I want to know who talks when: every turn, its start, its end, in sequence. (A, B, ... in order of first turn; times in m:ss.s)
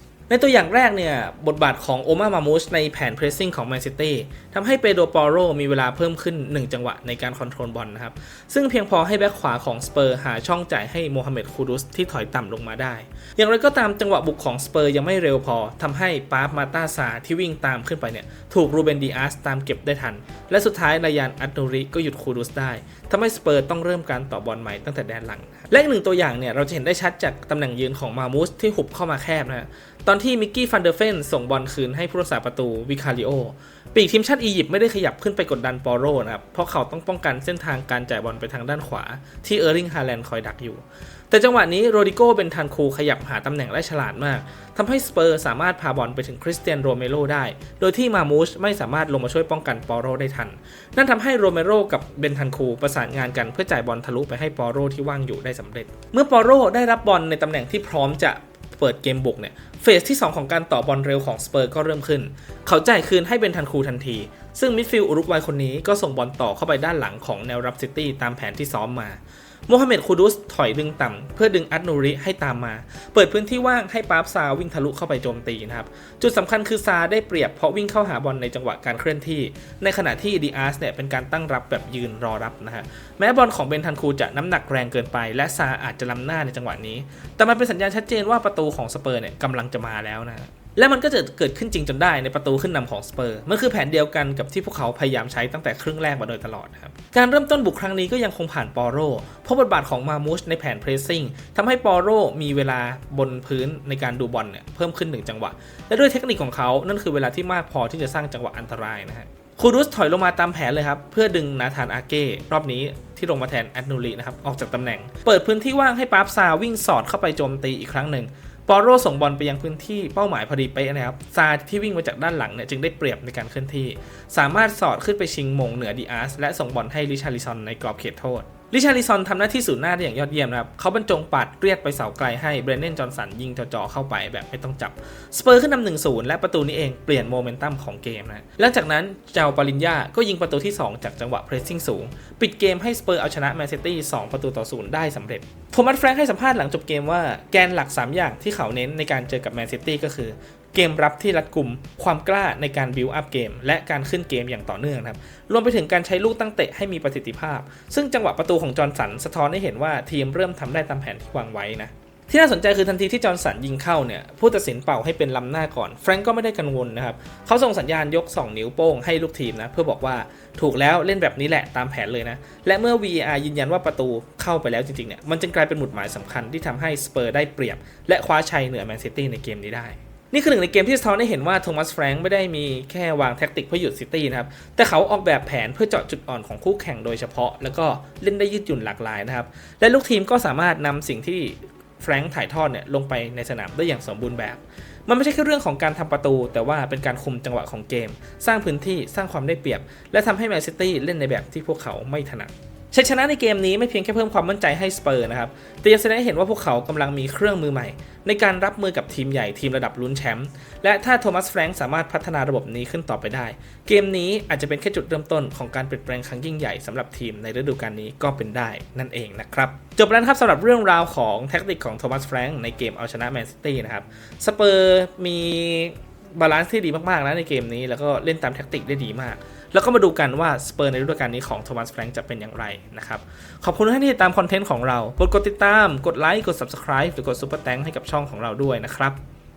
0:00.3-3:59.2 A